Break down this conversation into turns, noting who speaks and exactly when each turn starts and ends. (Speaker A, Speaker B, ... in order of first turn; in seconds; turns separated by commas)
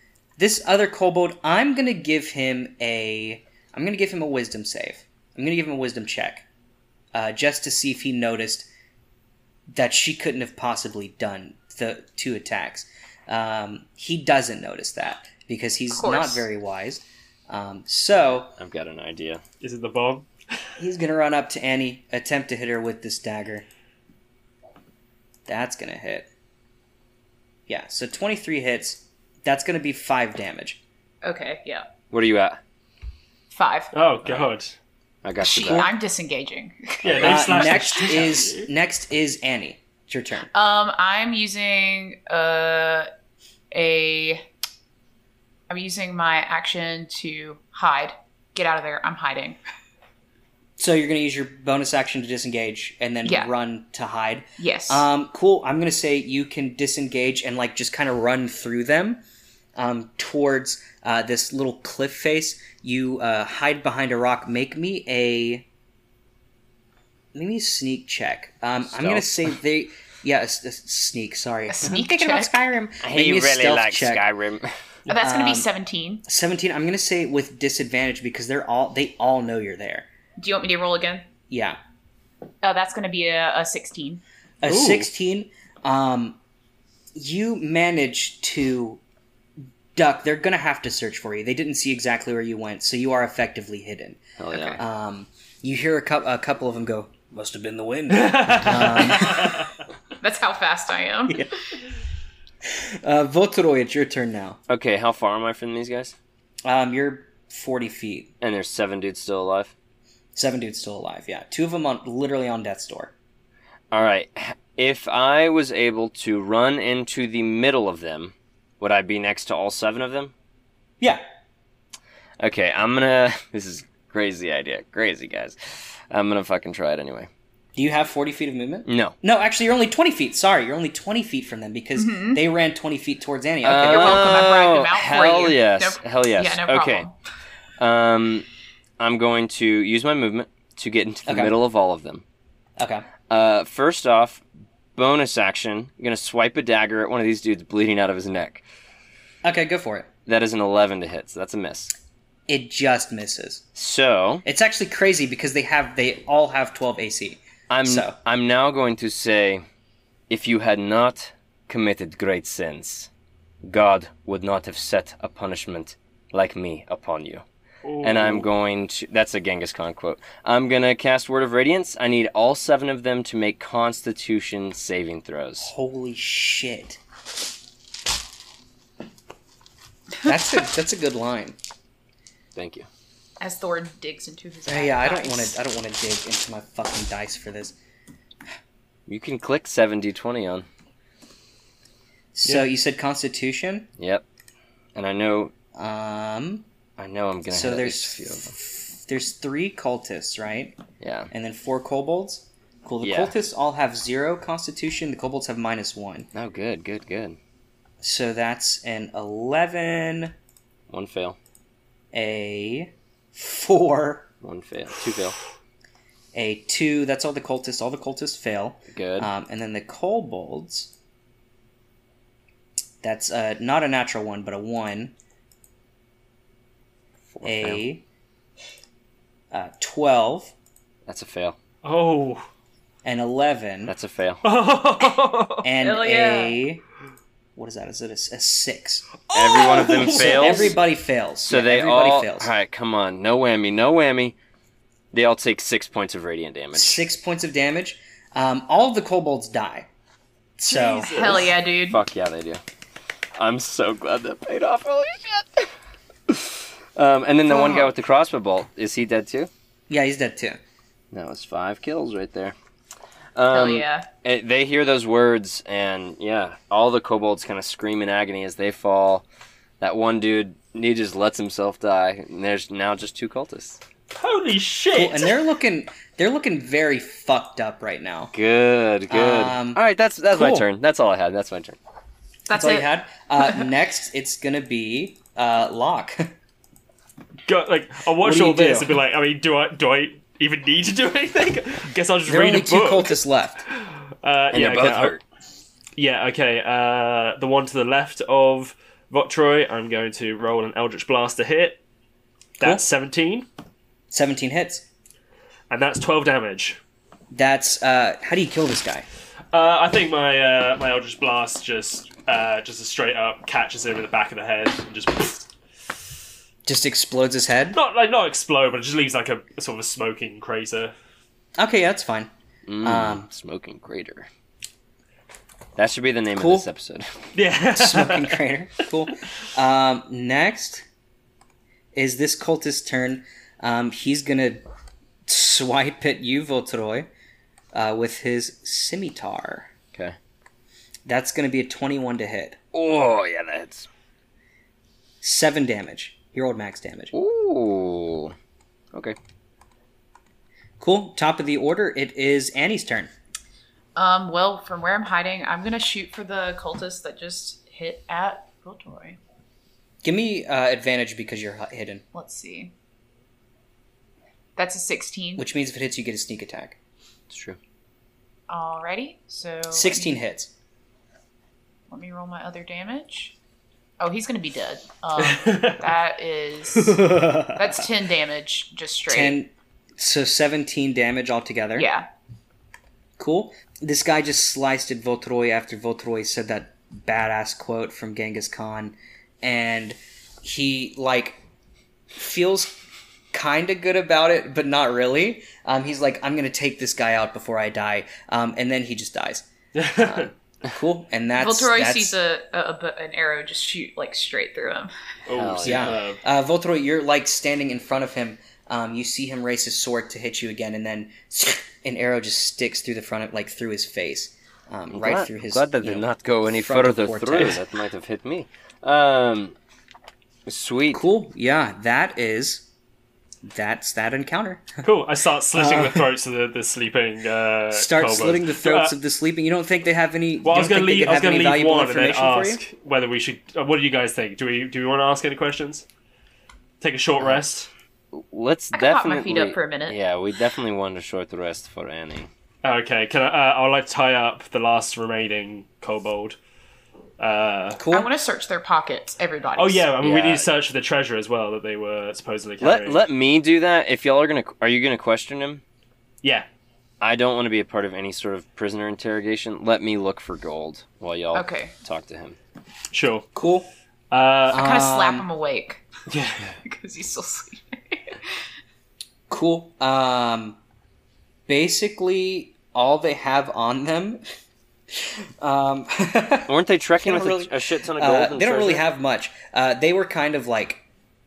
Speaker A: 0.4-6.5, Speaker A: 7.1-8.7, Speaker A: 9.7-18.6, Speaker B: 15.9-16.5, Speaker C: 18.6-19.4, Speaker D: 19.6-20.3, Speaker A: 20.8-23.7, Speaker A: 25.5-26.3, Speaker A: 27.7-30.8, Speaker B: 31.2-31.9, Speaker C: 32.1-32.6, Speaker B: 33.5-33.9, Speaker D: 33.9-34.8, Speaker C: 34.2-34.5, Speaker C: 35.2-35.9, Speaker B: 35.4-38.2, Speaker D: 37.0-38.7, Speaker C: 37.1-37.3, Speaker A: 37.2-40.5, Speaker B: 40.5-43.1, Speaker B: 43.7-44.5, Speaker B: 45.7-49.6, Speaker A: 50.8-59.2, Speaker B: 53.2-53.5, Speaker B: 54.6-55.1, Speaker A: 59.8-65.7, Speaker A: 67.3-74.2, Speaker C: 68.9-69.5, Speaker B: 71.7-72.5, Speaker C: 73.0-74.8, Speaker B: 75.1-76.2, Speaker A: 75.1-75.7, Speaker A: 76.3-80.1, Speaker B: 80.4-81.3, Speaker A: 81.5-81.8, Speaker B: 82.6-84.2, Speaker A: 84.6-86.4, Speaker D: 84.7-85.1, Speaker A: 87.2-89.0, Speaker A: 90.0-94.2, Speaker C: 94.4-94.8, Speaker B: 94.5-94.8, Speaker A: 94.8-99.7, Speaker D: 98.1-99.7, Speaker B: 100.2-101.5, Speaker A: 102.6-104.6, Speaker C: 104.7-106.2, Speaker A: 106.7-108.3, Speaker C: 108.4-109.7, Speaker A: 110.3-113.1, Speaker C: 113.9-120.3, Speaker C: 122.4-127.3, Speaker A: 127.8-134.5, Speaker C: 128.9-129.2, Speaker B: 132.0-132.4, Speaker C: 133.6-137.1, Speaker B: 133.8-137.1, Speaker C: 137.8-138.5, Speaker C: 139.0-142.2, Speaker A: 141.3-141.5, Speaker A: 142.8-143.1, Speaker C: 143.3-144.4, Speaker C: 145.0-148.6, Speaker A: 149.4-150.1, Speaker C: 150.3-151.9, Speaker A: 152.5-153.7, Speaker C: 153.8-154.4, Speaker A: 154.4-158.2, Speaker C: 157.7-159.7, Speaker C: 160.3-163.1, Speaker C: 163.6-167.4, Speaker D: 167.8-168.5, Speaker C: 168.0-175.7, Speaker A: 175.6-177.0, Speaker A: 180.2-181.6, Speaker C: 182.6-182.9, Speaker B: 183.4-185.6, Speaker A: 184.7-187.8, Speaker C: 189.1-190.7, Speaker A: 192.3-193.9, Speaker C: 194.0-194.2, Speaker C: 194.9-195.5, Speaker A: 195.7-196.7, Speaker C: 197.0-198.5, Speaker A: 197.5-200.8, Speaker C: 201.0-201.3, Speaker A: 201.3-206.3, Speaker C: 203.0-203.3, Speaker C: 206.3-207.4, Speaker A: 208.0-210.3, Speaker C: 210.9-211.4, Speaker A: 212.1-214.3, Speaker C: 214.4-215.4, Speaker A: 216.3-220.9, Speaker C: 218.9-219.3, Speaker A: 223.0-225.1, Speaker C: 227.3-227.8, Speaker A: 227.4-228.0, Speaker A: 229.5-230.5, Speaker C: 231.1-231.6, Speaker D: 231.8-232.4, Speaker A: 233.0-234.0, Speaker C: 233.9-234.4, Speaker D: 234.4-235.7, Speaker A: 235.6-236.8, Speaker B: 235.8-236.6, Speaker A: 237.6-239.1, Speaker D: 239.3-240.8, Speaker C: 239.3-240.8, Speaker A: 239.9-242.5, Speaker C: 241.5-244.4, Speaker C: 245.1-247.0, Speaker A: 246.7-249.9, Speaker A: 250.6-251.5, Speaker B: 250.7-252.0, Speaker D: 250.9-251.4, Speaker C: 251.9-252.6, Speaker C: 253.4-255.7, Speaker C: 256.3-259.5, Speaker B: 257.5-257.9, Speaker A: 259.9-260.6, Speaker C: 261.1-262.6, Speaker C: 263.4-269.2, Speaker B: 263.5-264.1, Speaker C: 269.8-273.8, Speaker D: 274.1-275.4, Speaker A: 274.9-278.3, Speaker C: 278.3-281.8, Speaker A: 279.1-280.7, Speaker B: 282.5-283.6, Speaker A: 282.5-286.3, Speaker D: 287.5-293.2, Speaker A: 288.2-289.0, Speaker A: 292.3-293.6, Speaker D: 293.7-295.2, Speaker C: 294.5-295.2, Speaker D: 296.0-301.8, Speaker D: 302.6-303.5, Speaker A: 304.1-304.9, Speaker D: 305.7-306.8, Speaker A: 307.3-309.1, Speaker D: 309.5-315.5, Speaker A: 316.7-317.8, Speaker D: 317.7-320.9, Speaker A: 321.6-322.3, Speaker C: 322.7-324.3, Speaker A: 322.8-323.3, Speaker C: 325.8-327.1, Speaker A: 326.3-326.7, Speaker D: 327.4-328.4, Speaker A: 327.8-330.9, Speaker A: 331.9-334.6, Speaker A: 335.3-337.1, Speaker A: 337.7-339.7, Speaker A: 341.1-342.6, Speaker C: 342.7-343.9, Speaker A: 345.2-347.1, Speaker C: 347.1-348.4, Speaker A: 350.8-353.1, Speaker B: 354.0-359.2, Speaker A: 360.0-362.0, Speaker B: 362.1-362.7, Speaker B: 364.6-365.5, Speaker A: 365.4-366.8, Speaker C: 367.3-367.6, Speaker B: 368.5-370.2, Speaker A: 369.7-370.5, Speaker B: 371.9-373.4, Speaker B: 374.0-379.4, Speaker D: 375.2-375.9, Speaker A: 379.1-381.9, Speaker B: 381.8-382.1, Speaker A: 383.2-391.4, Speaker A: 392.1-392.8, Speaker A: 393.3-402.2, Speaker D: 399.8-400.3, Speaker B: 401.4-404.9, Speaker D: 405.3-406.2, Speaker C: 405.3-406.0, Speaker A: 405.6-417.6, Speaker C: 414.9-419.6, Speaker C: 420.5-421.0, Speaker A: 420.9-422.7, Speaker A: 423.4-424.8, Speaker D: 424.8-428.9, Speaker A: 425.6-426.1, Speaker A: 427.7-432.6, Speaker D: 430.4-435.9, Speaker D: 436.8-437.7, Speaker C: 438.1-442.3, Speaker B: 438.7-440.0, Speaker D: 442.6-446.4, Speaker D: 447.2-447.8, Speaker A: 447.8-448.1, Speaker B: 447.9-449.9, Speaker D: 449.6-453.0, Speaker C: 450.0-450.5, Speaker C: 452.6-455.6, Speaker C: 457.0-462.4, Speaker B: 461.3-461.7, Speaker D: 462.9-463.3, Speaker A: 463.4-463.7, Speaker D: 464.1-464.6, Speaker A: 464.5-465.3, Speaker B: 464.5-465.8, Speaker D: 466.1-466.6, Speaker B: 466.6-468.4, Speaker A: 469.3-470.6, Speaker A: 471.5-474.2, Speaker A: 475.0-480.8, Speaker C: 476.5-478.9